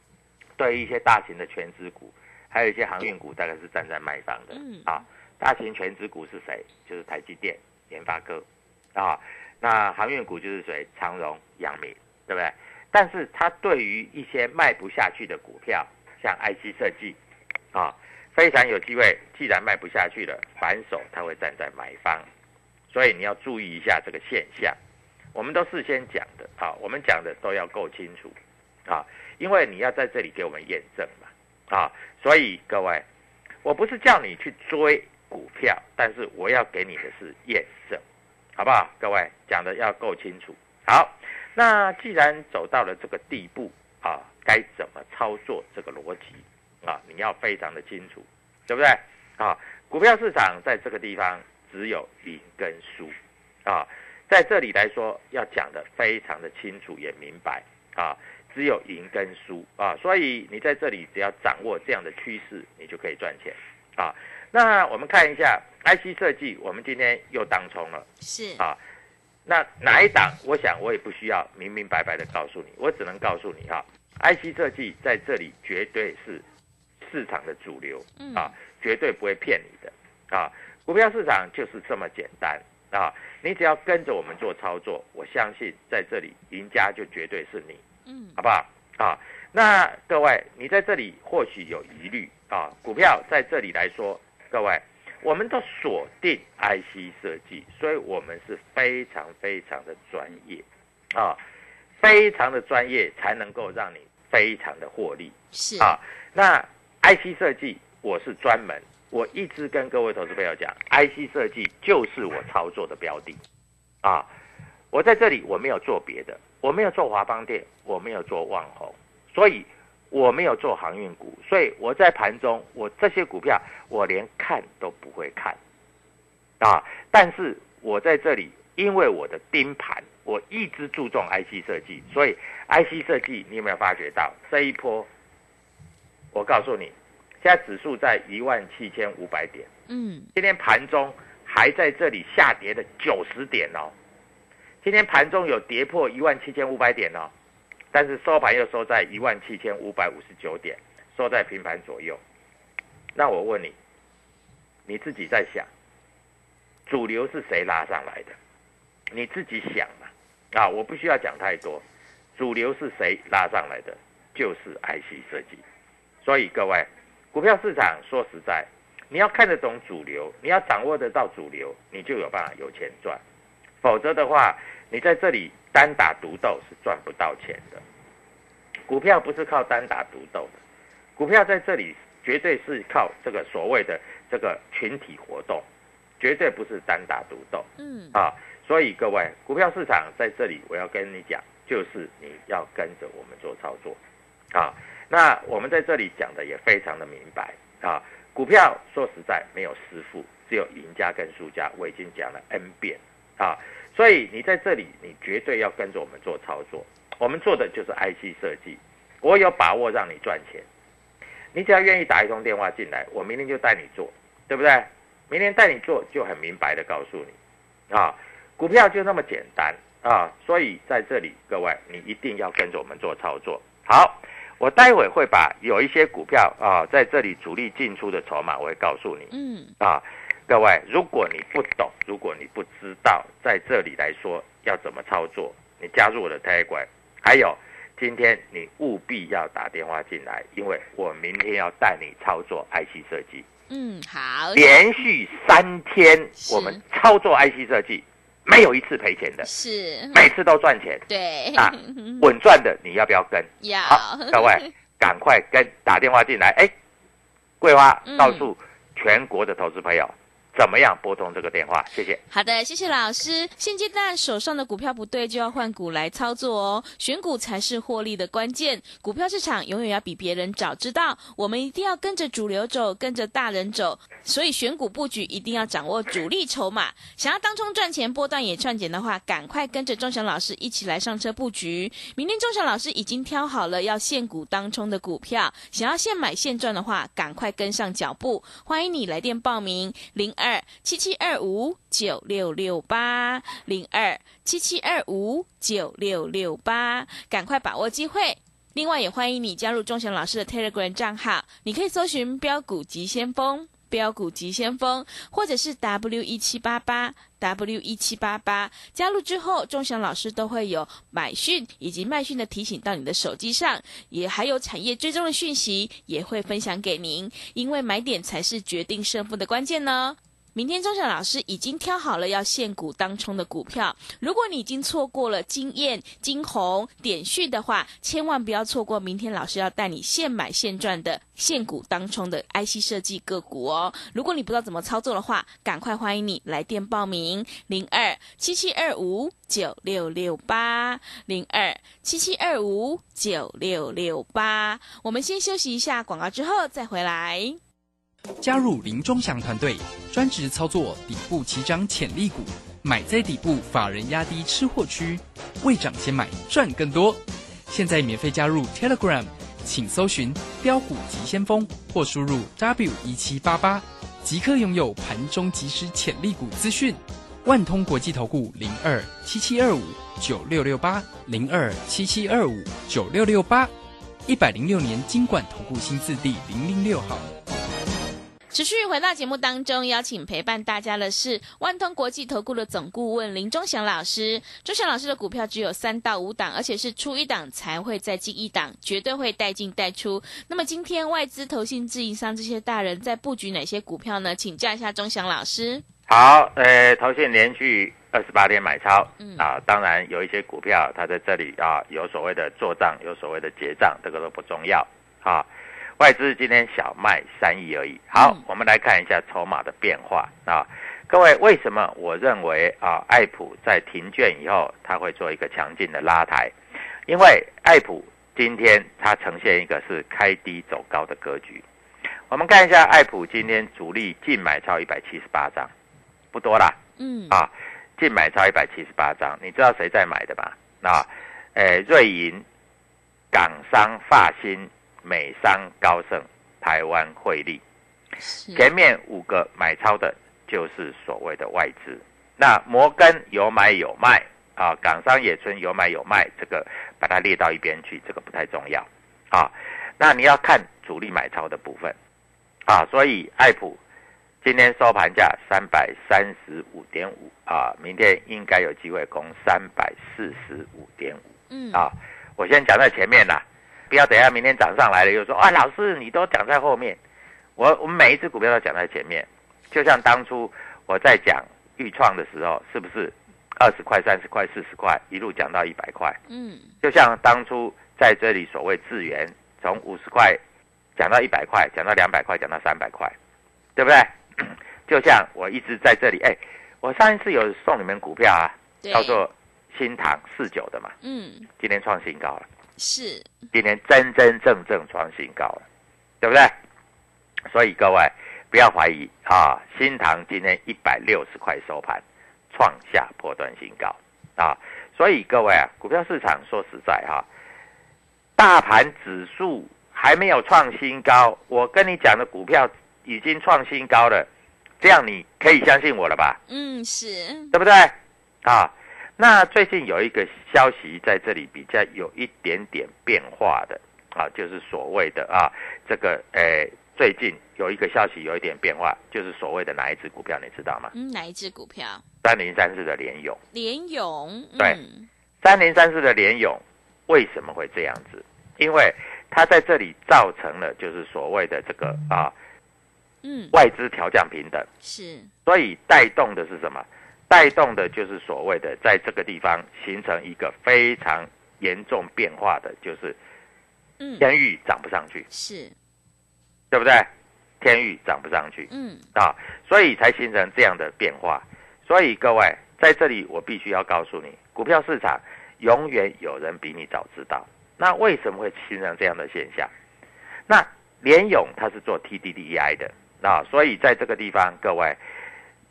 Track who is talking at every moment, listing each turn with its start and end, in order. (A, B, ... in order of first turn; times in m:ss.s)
0:00.6-0:17.2 A
0:04.5-0:04.9 B
0:17.7-0:22.3 A
0:22.9-0:24.8 A
0:25.3-0:28.4 A
0:28.9-0:33.0 A
0:33.6-0:38.0 A
0:38.6-0:53.1 A
0:53.7-1:08.1 A
1:08.2-1:08.6 B
1:09.5-1:16.4 A
1:17.0-1:27.8 A
1:18.2-1:18.5 B
1:28.1-1:28.4 B
1:28.4-1:41.4 A
1:42.0-1:53.4 A
1:45.5-1:46.0 B
1:54.0-1:54.3 A
1:54.9-2:05.6 A
2:06.6-2:15.1 A
2:16.3-2:19.7 A
2:19.9-2:20.3 B
2:20.4-2:23.9 A
2:24.8-2:27.3 A
2:27.9-2:32.2 A
2:33.2-2:33.8 A
2:34.9-2:35.7 A
2:36.9-2:38.4 A
2:39.1-2:41.8 A
2:42.4-2:45.6 A
2:46.2-2:53.2 A
2:53.8-2:57.8 A
2:58.9-3:00.6 A
3:01.2-3:05.6 A
3:06.2-3:14.0 A
3:07.8-3:08.2 B
3:14.5-3:30.7 A
3:31.5-3:37.3 A
3:37.9-4:03.5 A
3:49.3-3:49.7 B
4:03.7-4:04.8 B
4:04.6-4:09.5 A
4:06.4-4:06.8 B
4:09.4-4:10.2 B
4:10.1-4:16.7 A
4:11.1-4:12.3 B
4:13.6-4:14.7 B
4:17.6-4:22.2 A
4:18.0-4:18.5 B
4:22.3-5:47.6 B
5:48.4-6:13.7 C
6:14.3-6:17.3 C
6:18.5-6:35.8 B
6:36.1-6:45.5 A
6:39.2-6:39.5 B
6:46.0-6:56.5 A
6:48.2-6:48.4 B
6:57.1-7:01.6 A
7:02.3-7:05.7 A
7:06.3-7:06.8 A
7:07.0-7:07.4 B
7:07.3-7:12.4 A
7:13.3-7:17.6 A
7:18.2-7:18.7 B
7:18.6-7:32.0 A
7:32.7-7:33.8 A
7:34.4-7:47.0 A
7:41.5-7:41.9 B
7:47.6-7:56.2 A
7:56.3-7:56.7 B
7:56.8-8:00.4 A
8:01.0-8:03.2 A
8:03.8-8:10.9 A
8:08.8-8:09.2 B
8:11.0-8:11.5 B
8:11.6-8:12.5 A
8:12.8-8:13.3 B
8:13.5-8:15.6 A
8:16.2-8:16.5 A
8:17.5-8:27.3 A
8:28.4-8:34.3 A
8:34.8-8:36.4 A
8:36.5-8:37.6 B
8:37.5-8:50.9 A
8:50.9-8:52.0 B
8:52.2-8:53.4 A
8:53.5-8:55.1 B
8:55.4-9:02.3 A
9:03.2-9:03.6 B
9:03.5-9:04.7 A
9:04.8-9:05.3 B
9:05.4-9:13.2 A
9:14.0-9:14.3 B
9:14.2-9:15.3 A
9:15.3-9:15.7 B
9:16.7-9:17.1 A
9:17.6-9:29.7 A
9:18.7-9:19.0 B
9:30.5-9:35.0 A